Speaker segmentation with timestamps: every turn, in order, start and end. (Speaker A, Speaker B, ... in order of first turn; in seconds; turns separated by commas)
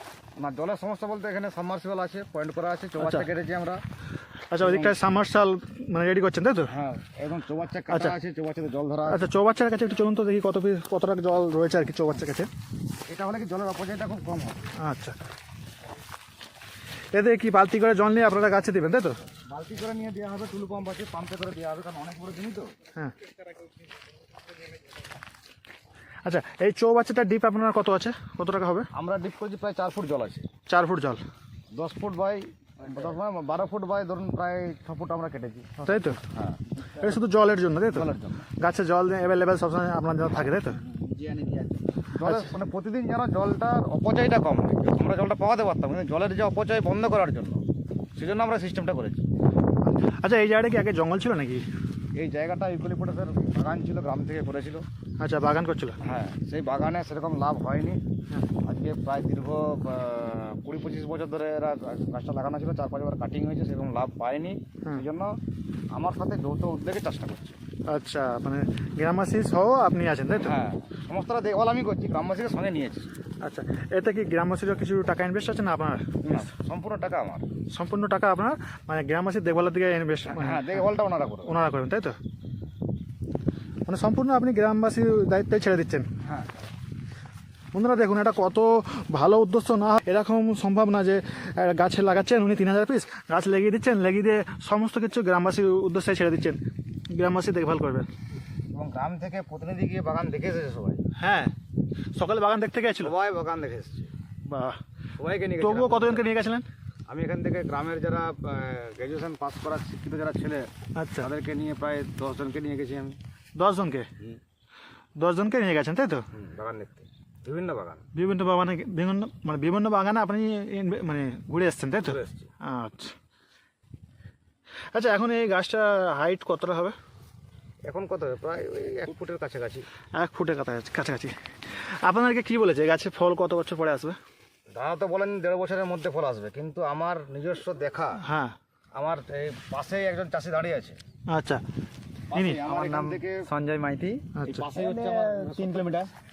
Speaker A: 0.4-3.8, Speaker B: 3.0-3.3, Speaker B: 4.5-6.7, Speaker A: 4.6-5.0, Speaker A: 6.7-9.3, Speaker B: 7.9-8.2, Speaker B: 9.1-12.5, Speaker A: 13.1-14.7, Speaker B: 14.8-15.2, Speaker B: 17.1-19.2, Speaker A: 19.5-22.7, Speaker B: 26.2-28.9, Speaker A: 28.9-30.5, Speaker B: 30.7-31.2, Speaker A: 31.7-36.6, Speaker B: 35.8-36.2, Speaker B: 37.0-40.8, Speaker A: 37.9-38.5, Speaker C: 40.4-42.0, Speaker A: 42.1-49.2, Speaker B: 42.2-42.5, Speaker B: 49.8-51.6, Speaker A: 52.1-54.9, Speaker B: 55.2-56.0, Speaker A: 56.0-58.0, Speaker A: 58.6-65.4, Speaker A: 65.9-67.6, Speaker B: 67.9-70.6, Speaker A: 70.4-73.2, Speaker B: 73.4-76.5, Speaker A: 76.2-77.5, Speaker B: 77.7-80.8, Speaker A: 80.3-81.6, Speaker B: 81.5-82.2, Speaker B: 83.8-86.1, Speaker A: 86.2-86.5, Speaker B: 87.7-98.1, Speaker A: 98.7-101.0, Speaker B: 101.2-101.5, Speaker B: 102.1-103.1, Speaker A: 103.0-104.1, Speaker B: 104.5-104.8, Speaker A: 105.2-106.3, Speaker B: 105.6-106.7, Speaker A: 107.1-113.2, Speaker B: 111.0-111.3, Speaker B: 113.6-114.1, Speaker B: 115.2-116.3, Speaker A: 116.3-118.0, Speaker B: 118.1-123.1, Speaker A: 122.0-122.5, Speaker B: 124.9-127.0, Speaker A: 127.8-129.9, Speaker B: 130.2-134.2, Speaker A: 134.7-138.2, Speaker B: 138.2-138.6, Speaker A: 138.9-141.0, Speaker B: 141.3-141.6, Speaker A: 142.3-143.4, Speaker B: 142.3-142.6, Speaker C: 142.6-146.1, Speaker B: 144.4-144.6, Speaker A: 144.4-146.0